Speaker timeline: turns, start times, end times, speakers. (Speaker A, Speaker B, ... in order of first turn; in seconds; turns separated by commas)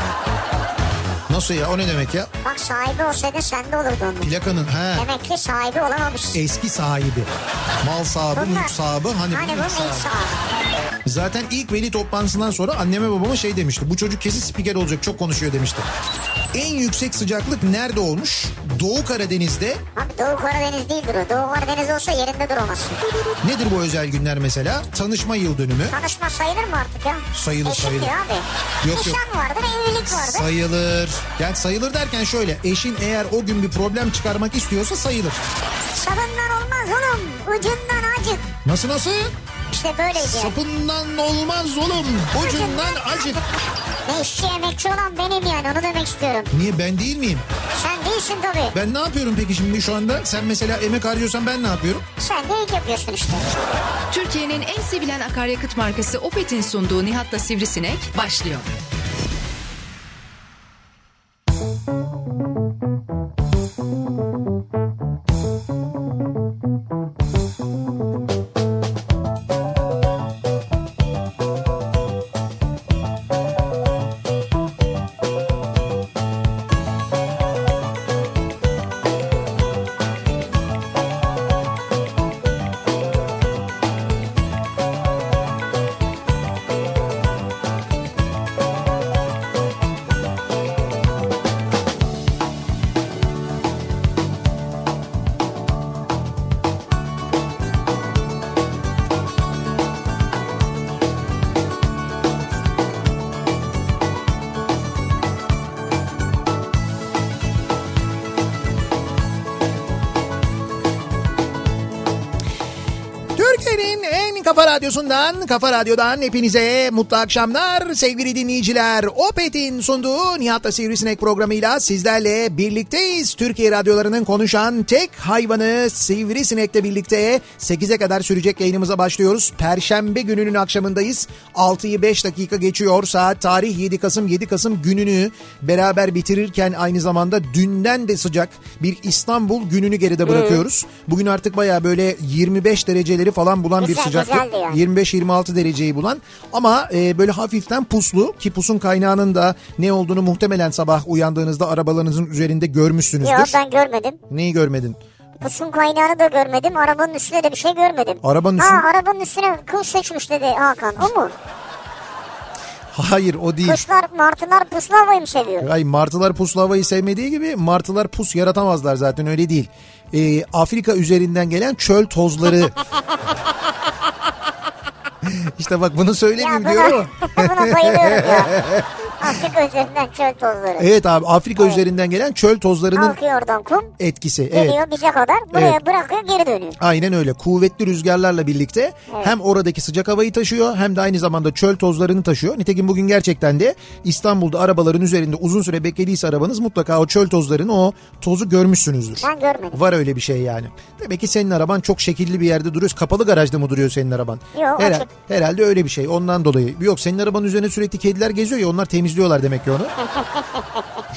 Speaker A: 1.3-2.3, Speaker B: 2.4-4.3, Speaker A: 4.2-5.1, Speaker B: 5.0-6.4, Speaker A: 6.3-7.3, Speaker A: 7.8-10.1, Speaker B: 8.3-8.7, Speaker B: 9.3-10.4, Speaker A: 11.1-15.9, Speaker A: 16.5-19.8, Speaker B: 20.0-23.0, Speaker A: 23.4-26.0, Speaker B: 25.9-30.5, Speaker A: 27.3-28.1, Speaker A: 28.8-29.2, Speaker A: 30.1-35.4, Speaker B: 35.9-38.5, Speaker A: 38.6-39.3, Speaker B: 39.7-40.6, Speaker A: 40.1-43.4, Speaker B: 42.4-43.4, Speaker B: 44.1-46.5, Speaker A: 46.5-47.5, Speaker B: 47.8-48.8, Speaker A: 48.7-52.0, Speaker B: 52.2-53.4, Speaker C: 54.1-58.7, Speaker A: 113.3-153.6, Speaker B: 140.3-140.6, Speaker B: 143.8-144.8, Speaker B: 153.2-154.2, Speaker A: 154.3-155.0, Speaker B: 155.4-161.3, Speaker A: 158.2-158.9, Speaker A: 162.9-163.8, Speaker B: 163.6-165.7, Speaker A: 165.6-172.8, Speaker A: 175.2-179.4, Speaker B: 176.4-178.6, Speaker B: 179.2-180.9, Speaker A: 180.8-183.2, Speaker B: 182.9-183.9, Speaker A: 184.0-184.8, Speaker B: 184.5-186.8, Speaker A: 185.5-185.8, Speaker A: 186.8-209.9, Speaker B: 189.1-189.3, Speaker B: 199.2-199.8, Speaker B: 204.5-205.1, Speaker B: 210.1-210.8